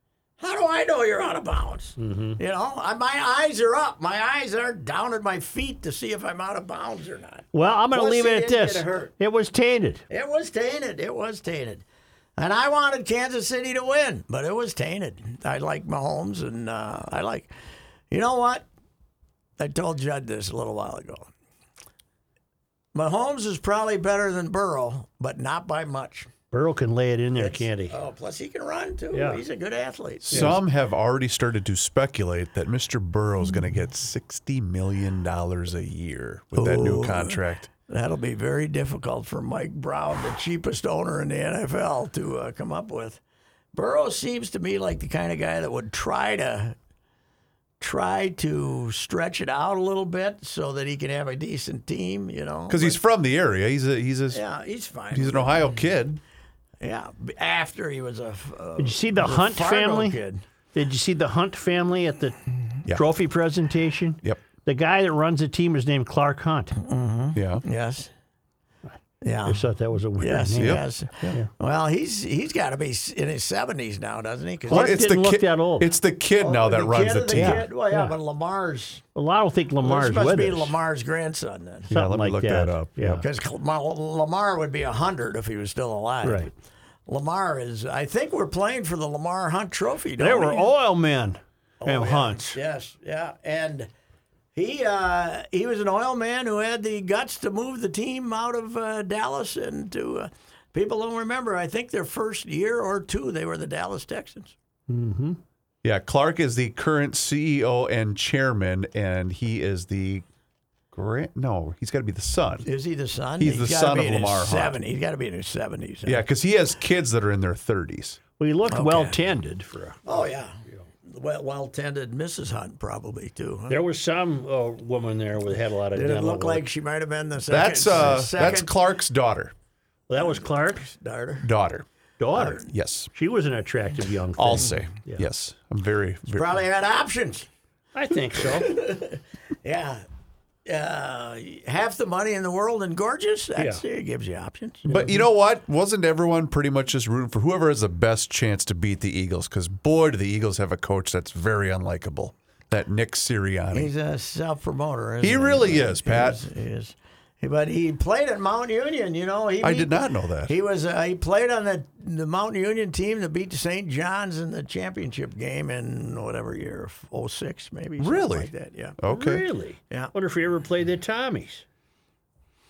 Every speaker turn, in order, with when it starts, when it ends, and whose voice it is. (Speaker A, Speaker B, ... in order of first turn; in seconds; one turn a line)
Speaker A: 0.4-9.1
Speaker B: 2.0-2.4
Speaker B: 7.5-10.0
Speaker A: 10.1-11.8
Speaker A: 12.4-17.5
Speaker A: 18.1-18.6
Speaker A: 19.6-21.3
Speaker A: 22.9-26.3
Speaker B: 26.5-27.9
Speaker A: 27.4-30.6
Speaker B: 29.1-29.4
Speaker C: 30.2-37.7
Speaker A: 36.5-43.2
Speaker A: 43.7-46.8
Speaker A: 47.8-53.0
Speaker C: 52.7-54.4
Speaker A: 54.3-55.8
Speaker C: 55.1-56.2
Speaker A: 56.8-60.4
Speaker B: 58.8-60.2
Speaker B: 60.7-62.4
Speaker B: 62.9-66.8
Speaker A: 66.8-68.1
Speaker C: 67.3-67.6
Speaker A: 69.2-69.6
Speaker B: 69.5-71.5
Speaker A: 70.2-75.0
Speaker C: 70.6-71.4
Speaker B: 74.7-75.9
Speaker C: 74.7-77.6
Speaker A: 76.4-79.0
Speaker B: 77.3-78.1
Speaker B: 79.2-80.7
Speaker A: 79.8-81.9
Speaker C: 81.9-82.9
Speaker B: 81.9-83.2
Speaker A: 83.0-86.5
Speaker B: 86.2-86.5
Speaker A: 87.1-90.7
Speaker B: 90.2-92.6
Speaker A: 91.8-93.9
Speaker A: 94.5-104.5
Speaker B: 104.9-105.4
Speaker C: 105.8-110.2
Speaker C: 110.9-112.7
Speaker A: 112.6-116.2
Speaker C: 113.4-114.8
Speaker C: 116.0-118.2
Speaker B: 118.4-120.2
Speaker A: 118.7-119.2
Speaker A: 120.0-123.8
Speaker B: 123.7-126.6
Speaker A: 125.9-128.7
Speaker C: 127.5-129.5
Speaker B: 130.1-130.8
Speaker A: 130.7-131.5
Speaker C: 131.4-131.8
Speaker B: 132.2-135.2
Speaker A: 132.3-132.6
Speaker C: 132.7-133.1
Speaker C: 134.4-136.6
Speaker A: 136.3-137.5
Speaker B: 137.9-138.8
Speaker A: 138.4-140.0
Speaker A: 140.7-144.8
Speaker B: 143.6-143.8
Speaker B: 144.8-145.2
Speaker C: 144.9-153.9
Speaker A: 153.7-169.0
Speaker C: 155.2-156.4
Speaker C: 159.6-160.5
Speaker C: 168.0-169.4
Speaker B: 169.1-171.6